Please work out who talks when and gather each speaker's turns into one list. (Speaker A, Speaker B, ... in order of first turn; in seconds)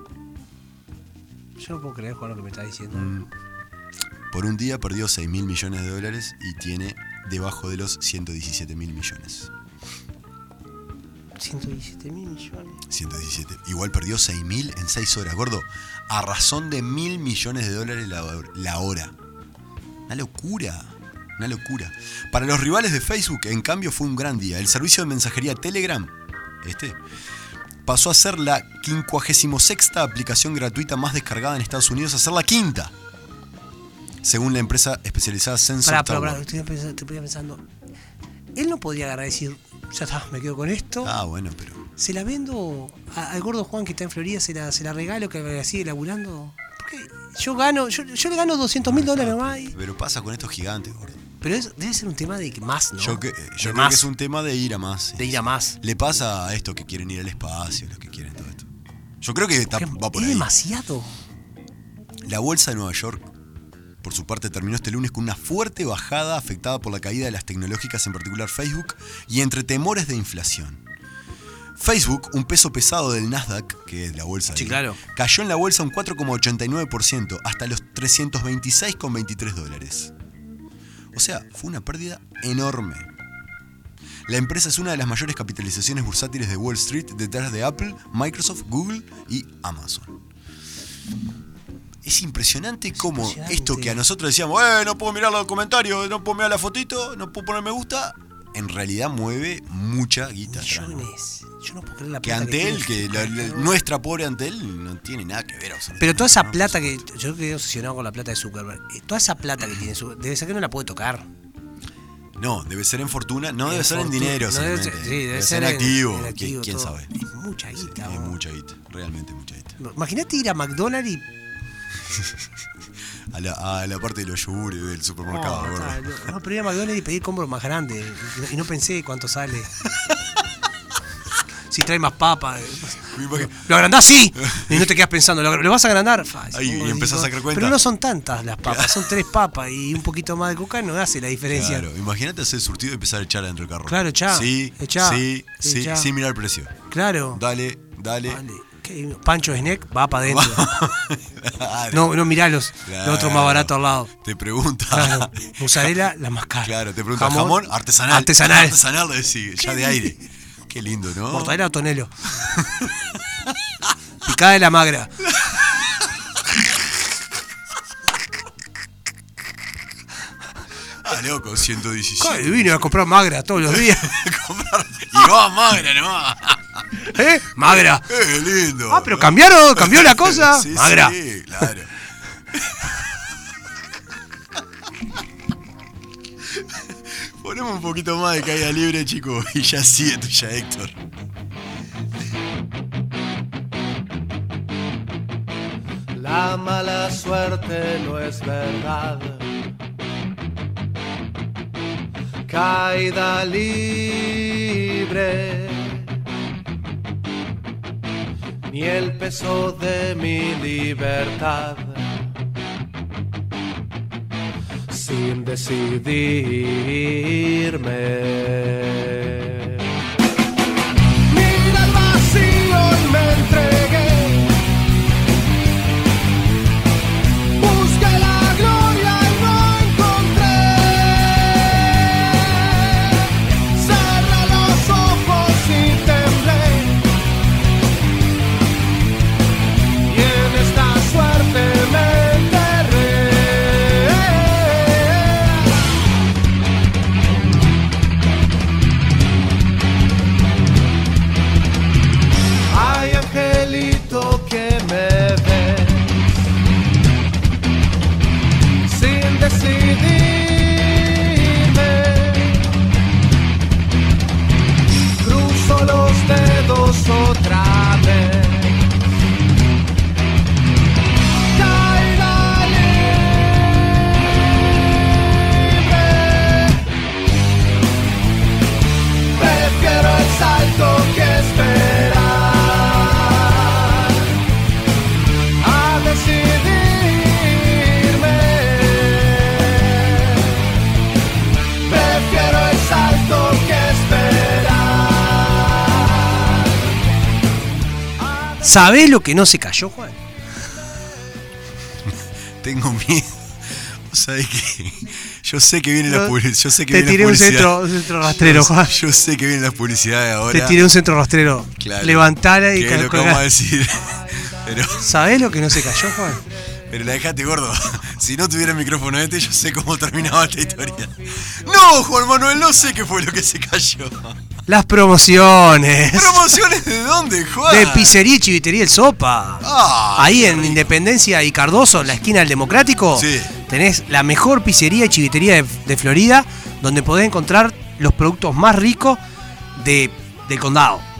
Speaker A: 1.6-3.2, 11.4-12.8, 35.8-37.6, 38.5-41.1, 42.0-49.7, 51.4-54.1, 55.2-55.8, 59.7-61.1, 74.5-75.0, 92.9-94.0, 100.5-103.7, 106.0-111.3, 113.7-118.3, 119.8-121.2, 125.3-129.7, 131.7-141.8, 143.9-146.1, 146.9-147.4, 148.3-150.7, 151.9-154.1, 154.9-158.8, 161.3-162.1, 164.2-165.1, 172.2-174.2, 177.0-178.1, 178.9-181.2, 298.6-300.2, 306.1-306.3, 306.9-308.9, 310.5-313.4, 315.0-316.4, 324.7-326.5, 327.7-339.2, 339.8-341.1
Speaker B: 2.9-3.3, 4.3-9.5, 12.9-19.1, 20.1-27.0, 27.8-32.9, 34.2-36.4, 41.0-41.8, 48.8-51.2, 53.0-58.7, 59.2-60.5, 62.2-63.2, 64.0-70.8, 71.8-80.1, 81.1-83.1, 84.3-90.2, 92.0-101.0, 102.2-107.0, 112.4-117.1, 117.7-119.8, 123.3-126.2, 129.8-130.2, 133.1-133.7, 134.3-134.9, 136.5-137.8, 138.6-139.1, 141.5-146.7, 147.3-148.4, 150.2-152.2, 152.8-155.9, 156.6-161.6, 162.3-163.0, 165.2-166.2, 171.0-173.0, 173.7-176.8, 177.6-181.9, 182.5-183.0, 186.5-191.0, 302.0-310.9, 311.8-315.2, 315.7-316.1, 316.9-324.4, 326.1-328.2, 329.6-330.9, 333.1-333.5
Speaker C: 196.2-197.7, 198.3-199.2, 202.7-205.8, 208.7-209.1, 209.6-211.8, 214.9-216.2, 216.8-217.5, 218.2-218.7, 221.3-224.4, 227.6-232.7, 233.8-236.9, 240.1-245.4, 252.7-256.1, 258.9-262.6, 265.2-268.7, 271.6-273.9, 275.5-276.8, 279.4-284.1, 285.6-290.5, 291.9-296.6